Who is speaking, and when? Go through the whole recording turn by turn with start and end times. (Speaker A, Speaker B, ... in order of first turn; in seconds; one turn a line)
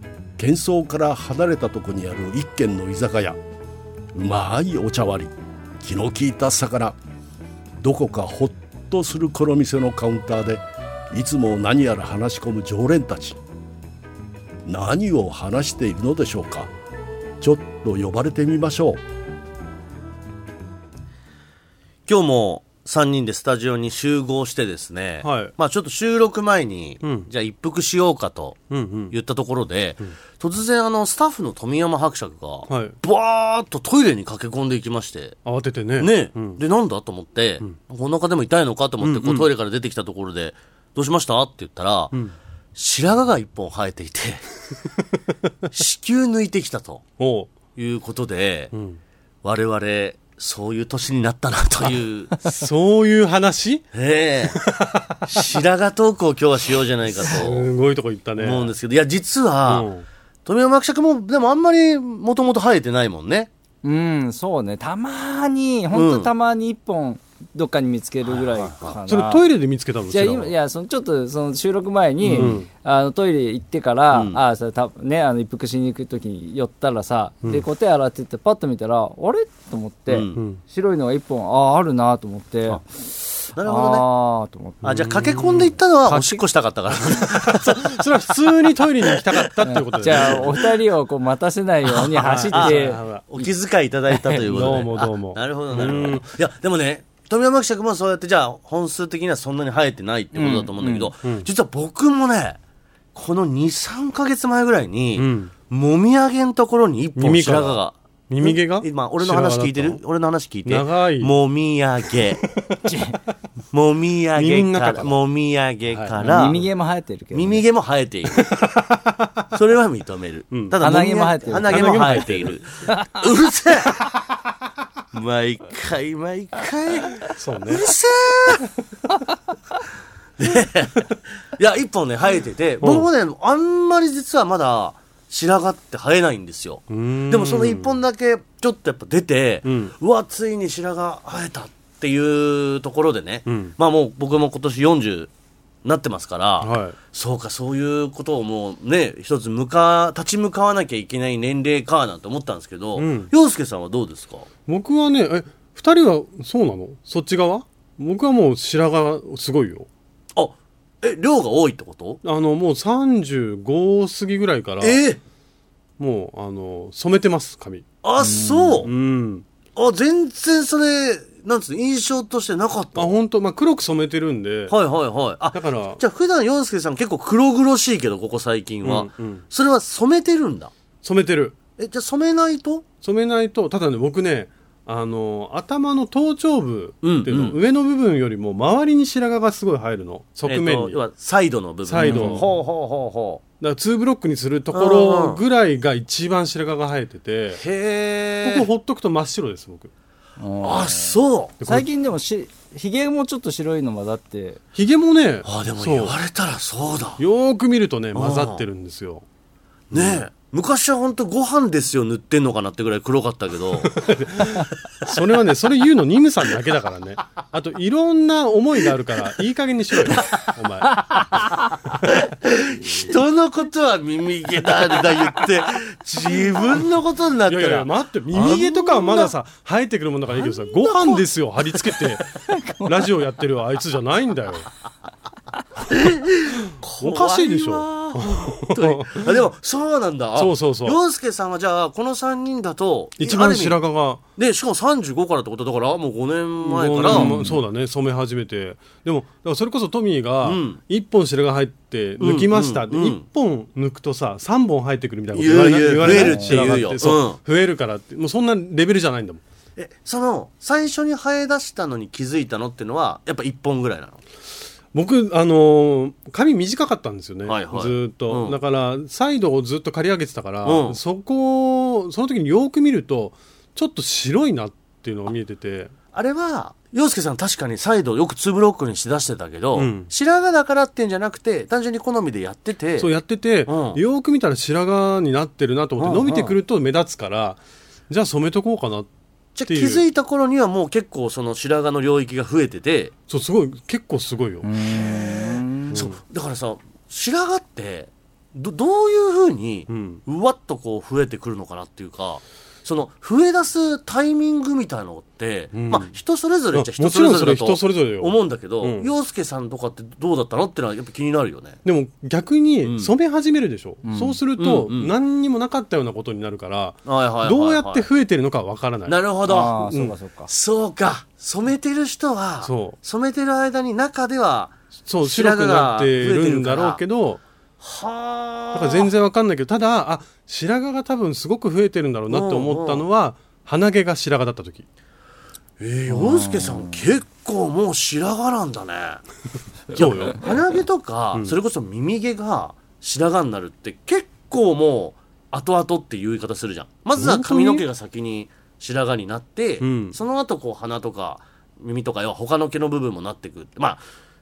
Speaker A: 0.4-3.4
Speaker A: 4.1-7.0
Speaker A: 7.8-13.4
Speaker A: 14.7-16.7
Speaker A: 17.4-19.0
Speaker B: 22.1-35.4
Speaker C: 25.2-25.5
Speaker C: 27.0-27.3
Speaker C: 28.7-29.1
Speaker C: 32.7-33.0
Speaker C: 35.5-36.6
Speaker B: 36.0-42.2
Speaker C: 39.0-39.5
Speaker B: 42.8-44.5
Speaker B: 45.7-47.0
Speaker C: 47.2-47.5
Speaker B: 47.8-48.7
Speaker C: 48.7-49.0
Speaker B: 49.4-52.5
Speaker C: 52.5-53.9
Speaker B: 53.9-54.6
Speaker C: 54.5-55.3
Speaker B: 55.3-57.7
Speaker C: 57.2-58.7
Speaker B: 58.4-59.9
Speaker C: 59.7-60.0
Speaker B: 60.5-63.5
Speaker D: 63.8-69.5
Speaker B: 65.9-66.3
Speaker B: 68.3-69.0
Speaker C: 69.1-70.5
Speaker D: 70.1-82.8
Speaker B: 72.2-72.6
Speaker C: 72.3-72.7
Speaker B: 74.1-74.4
Speaker B: 80.1-80.4
Speaker D: 83.5-84.8
Speaker B: 83.5-84.0
Speaker C: 84.8-85.8
Speaker B: 84.8-88.1
Speaker D: 86.1-86.4
Speaker C: 87.1-90.7
Speaker B: 89.0-89.5
Speaker D: 89.7-93.5
Speaker B: 90.0-90.7
Speaker B: 91.9-102.6
Speaker C: 92.2-93.2
Speaker C: 94.3-96.2
Speaker D: 100.3-101.1
Speaker B: 103.2-112.5
Speaker C: 105.2-105.5
Speaker C: 107.2-110.0
Speaker C: 110.7-111.3
Speaker D: 112.9-113.2
Speaker B: 113.7-116.6
Speaker C: 114.4-115.2
Speaker C: 115.9-116.6
Speaker D: 116.2-117.6
Speaker B: 117.3-118.5
Speaker C: 118.4-119.4
Speaker B: 119.5-124.0
Speaker C: 120.5-120.8
Speaker D: 120.8-122.2
Speaker C: 121.7-122.6
Speaker B: 125.1-128.7
Speaker C: 127.3-127.8
Speaker B: 130.4-145.3
Speaker C: 132.8-133.1
Speaker C: 136.9-138.0
Speaker C: 139.6-139.9
Speaker C: 143.5-143.7
Speaker B: 145.8-154.5
Speaker C: 146.6-147.0
Speaker C: 153.0-153.3
Speaker C: 154.7-159.9
Speaker B: 160.4-162.2
Speaker C: 162.2-165.0
Speaker B: 164.8-165.2
Speaker C: 166.0-167.8
Speaker B: 168.0-168.9
Speaker D: 168.2-168.8
Speaker C: 168.8-169.4
Speaker B: 169.8-173.2
Speaker C: 172.9-174.8
Speaker B: 174.7-180.7
Speaker C: 175.5-176.0
Speaker C: 178.8-179.4
Speaker C: 181.0-181.6
Speaker B: 181.8-182.9
Speaker C: 183.0-191.0
Speaker B: 187.0-187.6
Speaker B: 190.4-193.4
Speaker C: 191.9-192.5
Speaker D: 192.0-192.5
Speaker C: 193.6-197.6
Speaker B: 194.7-195.4
Speaker B: 197.5-198.7
Speaker C: 198.4-199.9
Speaker D: 200.4-204.6
Speaker B: 200.6-201.5
Speaker C: 201.6-201.9
Speaker C: 204.8-206.2
Speaker B: 205.4-207.2
Speaker C: 207.2-209.2
Speaker B: 208.1-208.6
Speaker B: 209.9-214.1
Speaker C: 209.9-210.3
Speaker C: 213.8-221.1
Speaker B: 220.1-220.4
Speaker D: 221.0-221.7
Speaker B: 222.0-229.3
Speaker C: 227.5-232.2
Speaker B: 230.4-232.2
Speaker C: 232.8-234.7
Speaker B: 235.9-243.8
Speaker C: 236.7-239.3
Speaker C: 240.4-241.0
Speaker C: 243.2-244.2
Speaker B: 244.4-247.3
Speaker C: 246.6-259.4
Speaker D: 247.1-247.6
Speaker B: 250.4-250.8
Speaker B: 252.2-253.2
Speaker B: 255.3-257.4
Speaker D: 256.1-256.6
Speaker B: 259.8-264.2
Speaker C: 264.9-275.9
Speaker B: 267.5-268.6
Speaker B: 270.6-271.0
Speaker B: 276.1-283.1
Speaker C: 279.8-280.1
Speaker C: 283.0-289.1
Speaker B: 283.7-284.0
Speaker B: 286.0-286.6
Speaker B: 289.6-293.1
Speaker C: 289.7-290.0
Speaker C: 293.3-294.6
Speaker D: 294.6-296.0
Speaker B: 294.8-311.8
Speaker C: 299.9-300.2
Speaker C: 305.7-306.1
Speaker C: 306.7-309.1
Speaker C: 311.9-319.2
Speaker B: 312.8-313.1
Speaker D: 314.0-314.4
Speaker B: 314.6-315.1
Speaker B: 317.1-318.1
Speaker B: 319.1-319.9
Speaker D: 319.5-320.5
Speaker B: 320.5-327.0
Speaker C: 322.6-323.0
Speaker C: 325.1-327.4
Speaker B: 327.8-329.1
Speaker C: 328.7-334.9
Speaker B: 332.3-333.0
Speaker B: 335.8-339.2
Speaker D: 336.1-337.0
Speaker B: 339.9-354.0
Speaker C: 339.9-340.4
Speaker C: 347.2-347.9
Speaker C: 349.8-350.2